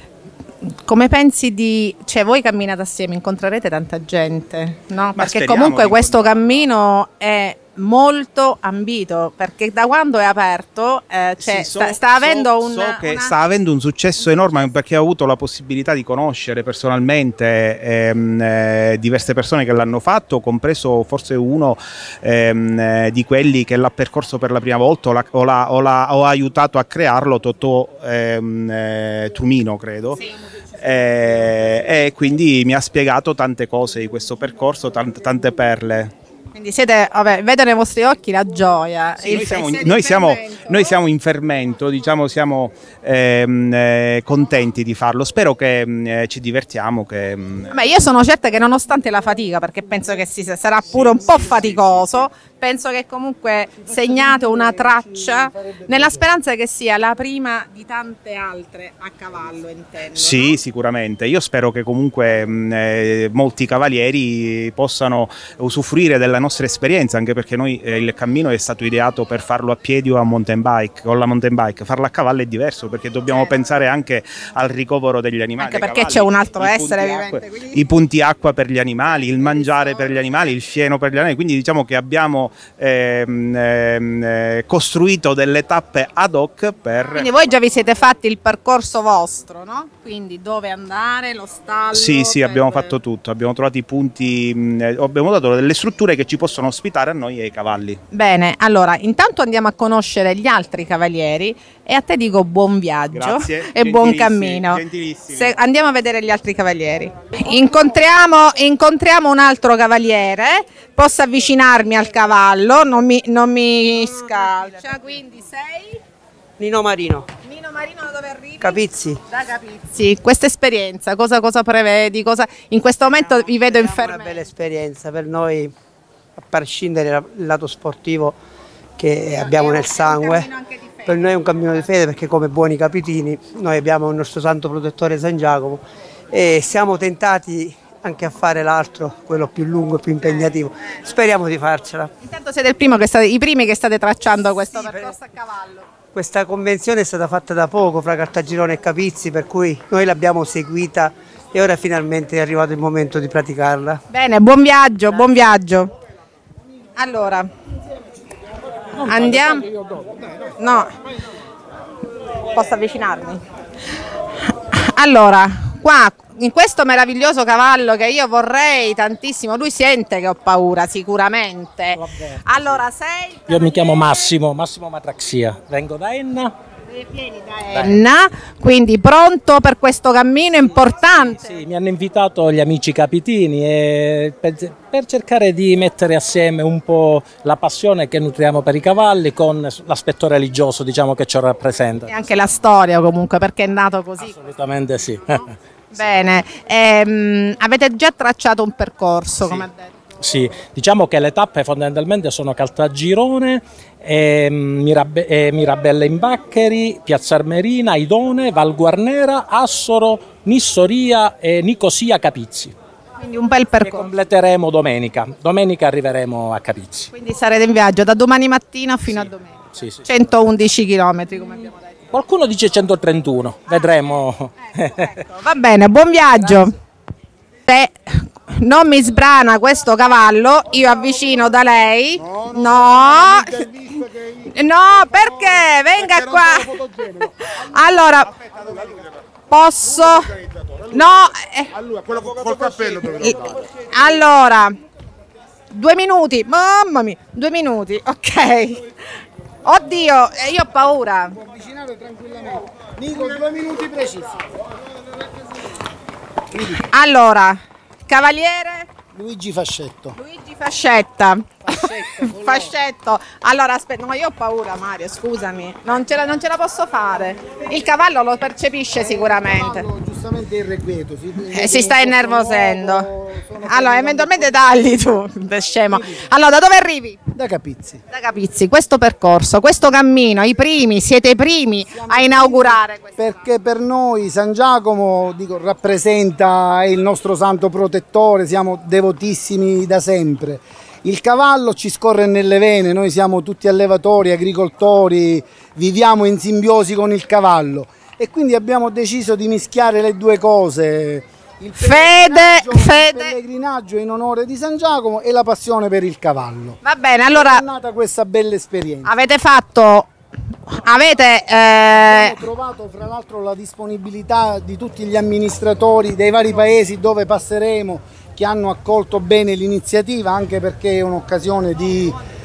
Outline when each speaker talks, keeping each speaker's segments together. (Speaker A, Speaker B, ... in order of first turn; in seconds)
Speaker A: 0.9-13.4, 36.5-40.9, 47.7-60.6, 75.6-77.8, 87.1-93.0, 98.1-116.0, 117.4-124.4, 129.3-131.9, 140.2-140.9, 142.2-145.9, 154.1-155.9, 157.0-157.5, 159.0-159.7, 160.6-160.9, 162.5-163.4, 164.7-174.1, 176.9-181.5, 192.1-194.3, 195.9-199.9, 213.2-214.1, 217.1-221.9, 225.3-226.8, 227.7-238.3, 239.5-240.4, 240.9-241.7, 242.9-244.8, 245.7-248.8, 249.7-251.4, 256.9-258.9, 260.2-269.9, 271.5-273.1, 273.6-277.2, 278.1-283.4, 301.8-303.3, 306.8-307.6, 309.1-310.1, 310.7-312.4
Speaker B: 5.2-6.3, 11.4-30.2, 30.8-36.1, 39.2-47.7, 50.8-52.3, 60.1-87.3, 91.9-98.0, 103.1-105.6
Speaker C: 54.0-56.1, 242.1-243.1, 251.4-254.4, 256.5-256.8, 259.1-260.2, 261.7-262.7, 268.9-274.9, 275.9-276.2, 277.4-278.0, 281.9-306.8, 307.3-309.1, 311.9-322.2
Speaker D: 116.6-117.3, 118.6-119.2, 123.1-125.7, 126.4-128.4, 129.0-130.5, 131.1-142.1, 144.8-145.1, 146.1-154.0
Speaker E: 171.9-172.8, 173.5-176.6, 177.7-178.0, 181.1-192.1, 194.2-195.5, 199.4-199.7, 200.2-212.8, 213.8-217.1, 219.1-220.1, 222.1-225.2